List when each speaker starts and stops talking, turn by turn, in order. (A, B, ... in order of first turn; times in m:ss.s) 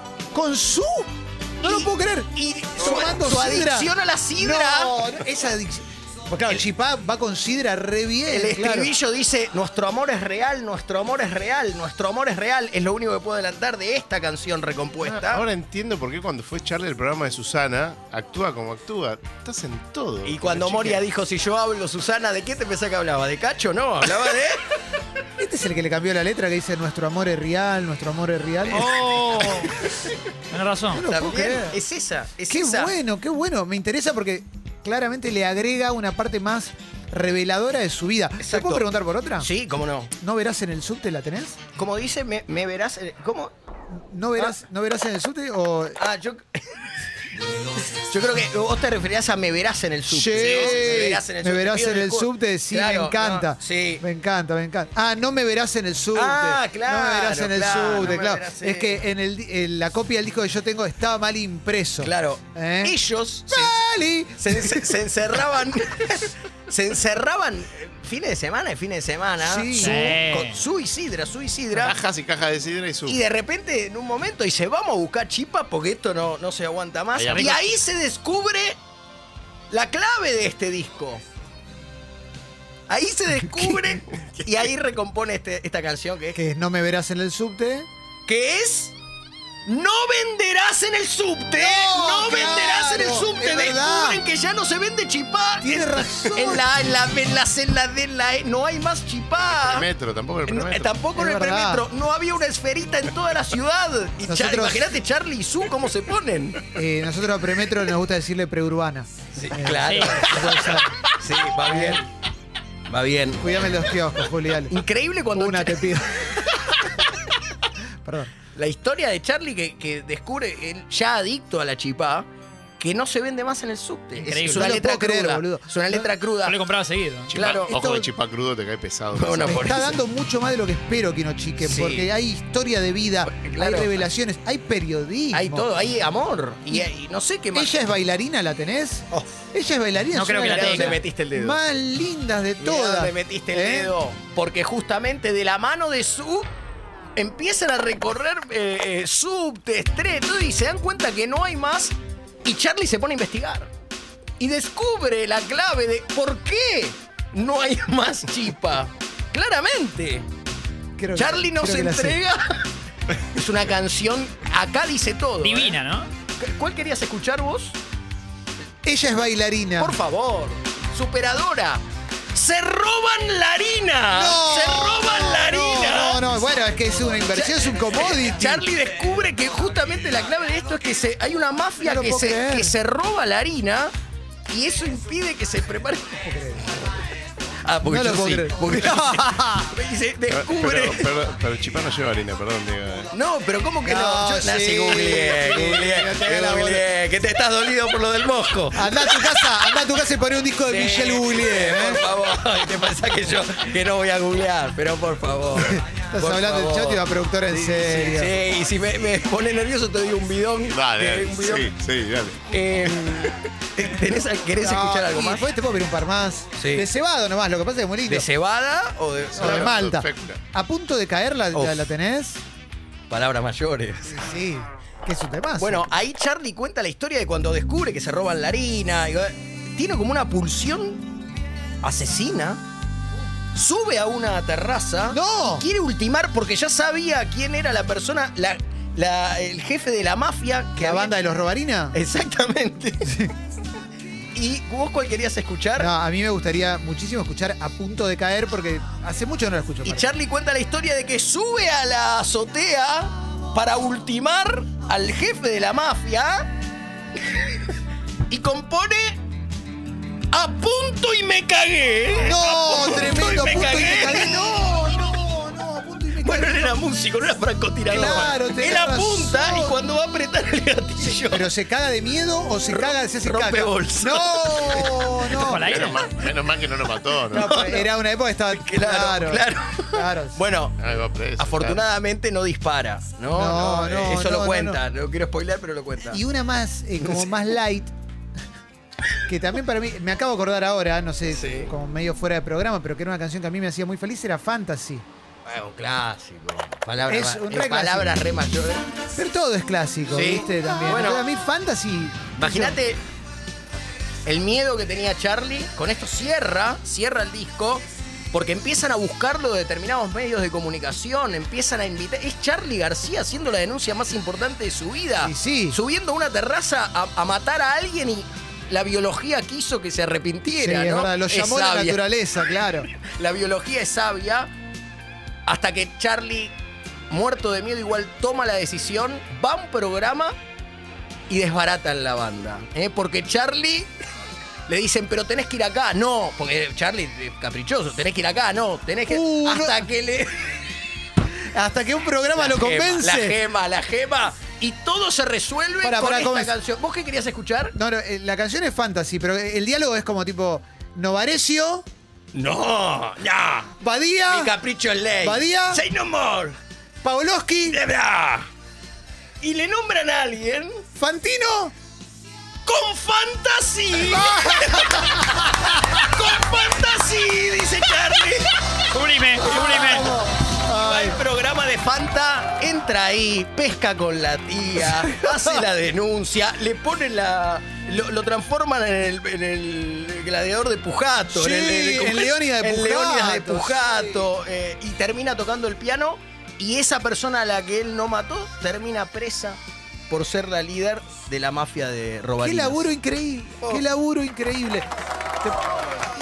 0:00.3-0:08.9 A
0:01.6-0:05.1 B
0:08.3-0:15.4 B
0:15.0-0:21.0 C
0:20.2-0:24.6 B
0:25.4-0:28.9 A
0:28.7-0:29.8 D
0:30.5-0:31.0 D
0:30.9-0:31.8 A
0:31.0-0:33.0 B
0:32.5-0:39.5 A
0:38.4-0:38.9 B
0:39.4-0:40.1 B
0:40.2-0:41.6 A
0:41.7-0:43.5 B
0:44.1-0:46.0 A
0:46.0-0:46.9 B
0:47.8-0:54.0 B
0:50.1-1:02.9 A
0:56.1-0:59.0 B
1:02.0-1:03.9 B
1:03.5-1:04.9 A
1:04.4-1:12.0 B
1:09.4-1:10.2 A
1:09.8-1:10.6 D
1:11.8-1:13.2 C
1:13.0-1:18.8 B
1:17.1-1:17.6 C
1:17.3-1:17.6 D
1:19.7-1:21.2 B
1:22.9-1:26.4 B
1:26.3-1:27.9 A
1:28.3-1:28.9 B
1:29.6-1:39.9 B
1:31.6-1:34.2 A
1:35.6-1:36.6 A
1:39.6-1:40.9 C
1:40.5-1:46.6 B
1:41.2-1:41.8 A
1:44.2-1:44.9 A
1:46.7-1:50.9 A
1:49.4-1:52.0 B
1:49.8-1:50.3 D
1:51.6-1:52.0 A
1:52.9-1:53.7 B
1:53.4-1:54.7 A
1:54.7-1:57.0 B
1:55.3-1:56.2 A
1:58.0-1:58.3 A
1:58.5-2:02.3 B
2:02.8-2:06.6 B
2:04.2-2:04.7 D
2:04.4-2:06.1 A
2:06.4-2:07.4 D
2:07.3-2:09.7 C
2:07.3-2:07.7 B
2:07.5-2:08.1 A
2:09.1-2:10.0 B
2:09.5-2:15.7 A
2:11.6-2:12.1 B
2:13.3-2:14.1 B
2:15.3-2:17.9 B
2:17.5-2:23.9 A
2:20.1-2:21.0 D
2:20.3-2:21.6 B
2:22.6-2:26.5 B
2:27.2-2:33.7 B
2:34.4-2:40.2 B
2:41.0-2:42.2 A
2:41.1-2:42.6 B
2:43.3-2:45.8 B
2:45.4-2:46.1 D
2:46.4-2:47.8 B
2:48.8-2:49.9 A
2:49.8-2:51.8 B
2:52.3-2:56.3 B
2:54.1-2:58.6 A
2:57.3-3:03.9 B
3:01.8-3:02.8 A
3:04.5-3:06.3 B
3:06.2-3:06.8 A
3:07.6-3:11.2 B
3:07.8-3:09.7 A
3:10.3-3:13.1 C
3:13.1-3:19.8 B
3:13.8-3:16.8 A
3:18.7-3:22.0 A
3:20.7-3:31.7 B
3:25.6-3:28.3 A
3:30.7-3:33.3 C
3:32.5-3:35.5 B
3:34.6-3:38.3 A
3:36.6-3:36.9 B
3:38.0-3:39.8 B
3:39.4-3:42.4 A
3:39.4-3:40.4 C
3:41.5-3:41.8 B
3:43.1-3:44.2 B
3:44.1-3:45.8 A
3:45.6-3:51.1 B
3:51.8-3:52.6 B
3:53.5-4:01.2 B
3:55.1-3:55.7 A
4:00.8-4:02.0 A
4:01.9-4:03.1 B
4:03.0-4:03.3 A
4:04.3-4:05.9 B
4:05.8-4:10.1 A
4:09.8-4:16.5 B
4:18.3-4:19.2 B
4:20.3-4:25.0 B
4:22.2-4:26.8 A
4:26.2-4:31.5 B
4:27.9-4:29.8 A
4:31.3-4:35.9 A
4:32.7-4:35.4 B
4:35.4-4:36.1 D
4:35.6-4:37.5 C
4:37.2-4:38.0 B
4:37.3-4:40.4 A
4:38.5-4:46.2 B
4:40.8-4:41.8 C
4:43.3-4:44.8 A
4:46.1-4:47.9 A
4:47.0-4:47.3 B
4:49.2-4:55.0 A
4:51.3-4:51.7 B
4:55.4-4:58.8 B
4:57.0-4:58.2 A
4:59.2-5:02.8 A
5:00.1-5:01.3 B
5:02.4-5:03.0 B
5:04.2-5:24.5 B
5:15.2-5:15.8 A
5:20.5-5:22.9 A
5:25.5-5:26.5 B
5:27.1-5:30.3 B
5:31.3-5:33.9 B
5:34.7-5:40.5 B
5:39.1-5:39.8 A
5:41.5-5:43.4 A
5:42.3-5:47.8 B
5:45.8-5:46.5 A
5:47.7-5:51.8 A
5:52.3-5:53.7 B
5:53.8-5:54.5 A
5:54.3-5:56.6 B
5:55.2-5:55.8 A
5:57.0-5:57.8 A
5:57.7-5:58.5 B
5:59.4-6:00.8 B
6:01.0-6:01.7 A
6:02.6-6:08.8 B
6:04.1-6:05.2 A
6:08.9-6:10.1 D
6:09.4-6:29.6 B
6:09.4-6:11.2 A
6:15.1-6:15.4 A
6:21.3-6:24.2 A
6:30.1-6:32.9 B
6:32.4-6:34.9 A
6:35.4-6:35.7 A